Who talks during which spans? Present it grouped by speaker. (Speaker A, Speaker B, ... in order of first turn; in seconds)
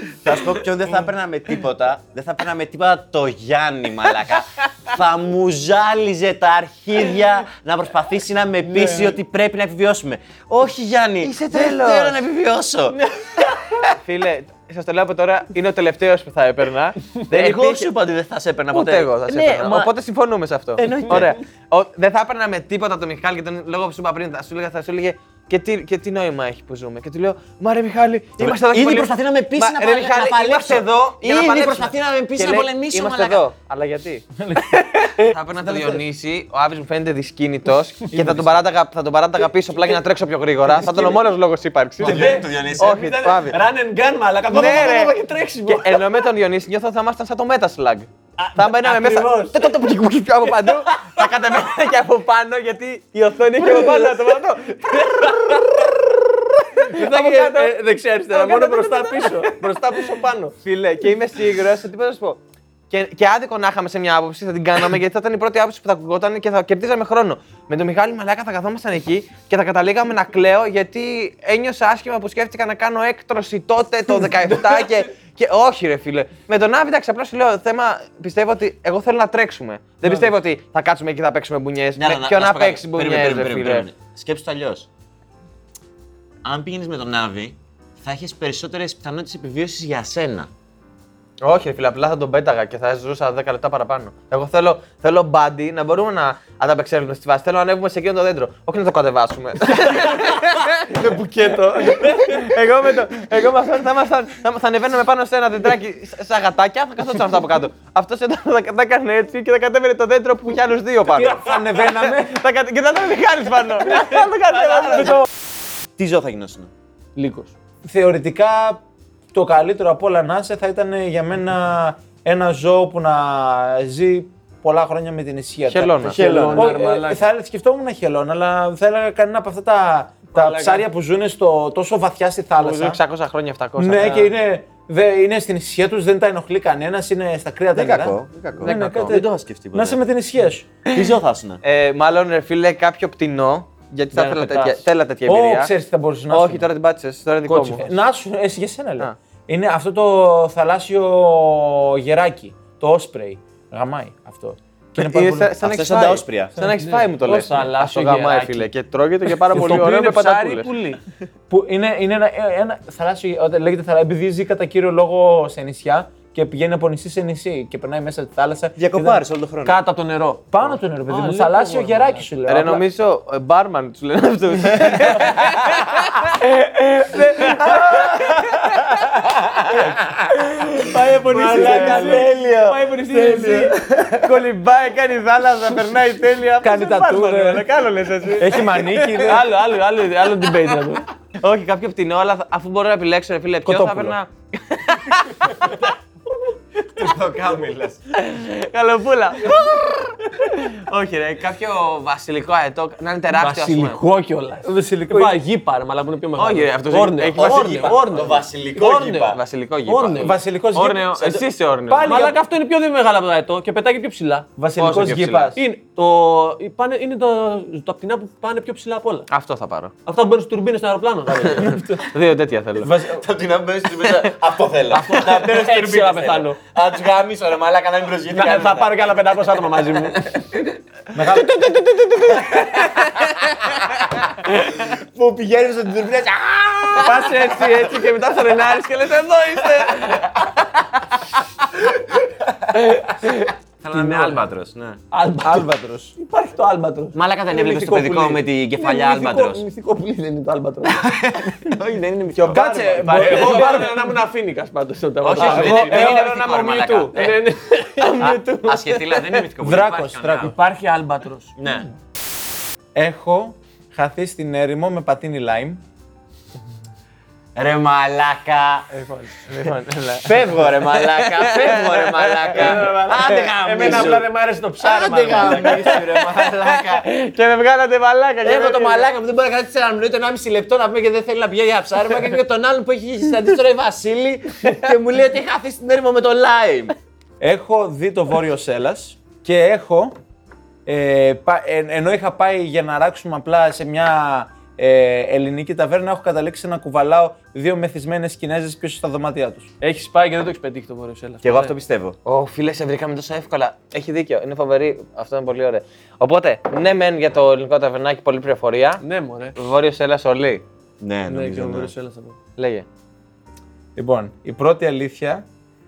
Speaker A: 0.2-13.0, 17.3-19.9, 20.8-21.4, 28.4-33.4, 42.0-43.0, 82.0-84.9, 86.4-90.5, 116.0-116.7, 126.1-126.8, 137.7-140.0, 140.9-141.6, 155.6-156.5, 168.8-169.8, 177.7-179.9, 181.3-182.9, 196.9-198.0, 207.4-209.4, 223.1-229.0, 234.8-237.5, 243.8-245.0, 247.2-249.6, 250.9-253.9, 255.2-257.4, 258.0-260.6, 261.6-261.9, 267.6-268.9, 270.2-274.3, 274.8-277.1, 278.4-286.9, 301.4-302.2, 311.0-311.9
Speaker B: 8.6-9.2, 20.8-21.3, 40.8-41.2, 42.0-46.0, 48.4-49.7, 50.9-51.2, 53.6-54.2, 55.0-55.9, 56.8-60.5, 101.0-102.2, 117.2-117.5, 126.0-127.2, 130.3-130.8, 134.0-134.3, 144.1-144.8, 147.5-147.9, 156.8-158.7, 159.3-161.0, 169.6-172.3, 180.9-183.7, 189.2-191.1, 203.4-210.4, 212.1-214.5, 215.6-219.3, 220.1-222.0, 224.9-226.6, 228.3-230.6, 237.0-240.6, 242.7-244.4, 245.1-251.1, 253.0-256.3, 257.1-259.5, 260.4-261.5, 268.9-269.3, 272.5-276.1, 299.8-301.7, 309.0-309.6, 311.3-312.4
Speaker C: 11.2-12.2, 14.0-17.9, 18.7-34.2, 35.2-43.6, 44.5-45.1, 45.7-55.9, 56.8-57.8, 58.3-59.5, 60.6-83.9, 91.4-115.2, 125.7-126.2, 132.6-134.2, 138.6-139.2, 141.6-145.7, 146.3-147.8, 154.9-160.7, 172.5-178.9, 180.6-189.3, 191.4-195.8, 198.1-204.0, 206.4-208.1, 209.2-212.3, 214.8-215.5, 219.3-219.9, 221.7-222.9, 231.4-233.4, 252.4-253.9, 255.4-257.1, 269.5-274.0, 275.6-279.1, 302.2-309.0, 309.6-310.6, 312.6-312.9
Speaker D: 34.4-36.0, 38.1-38.6, 111.0-112.4, 117.8-118.8, 119.3-133.0, 133.8-140.7, 145.3-146.7, 147.8-155.6, 161.5-169.2, 170.5-172.8, 177.5-178.9, 181.3-182.2, 186.6-187.7, 188.4-189.4, 193.7-194.2, 204.6-205.4, 210.2-212.4, 214.6-215.6, 222.8-223.2, 231.1-231.5, 245.4-246.2, 252.5-254.0, 255.4-256.2, 259.6-260.6, 262.9-265.8, 287.4-290.1, 290.9-299.7, 314.0-315.4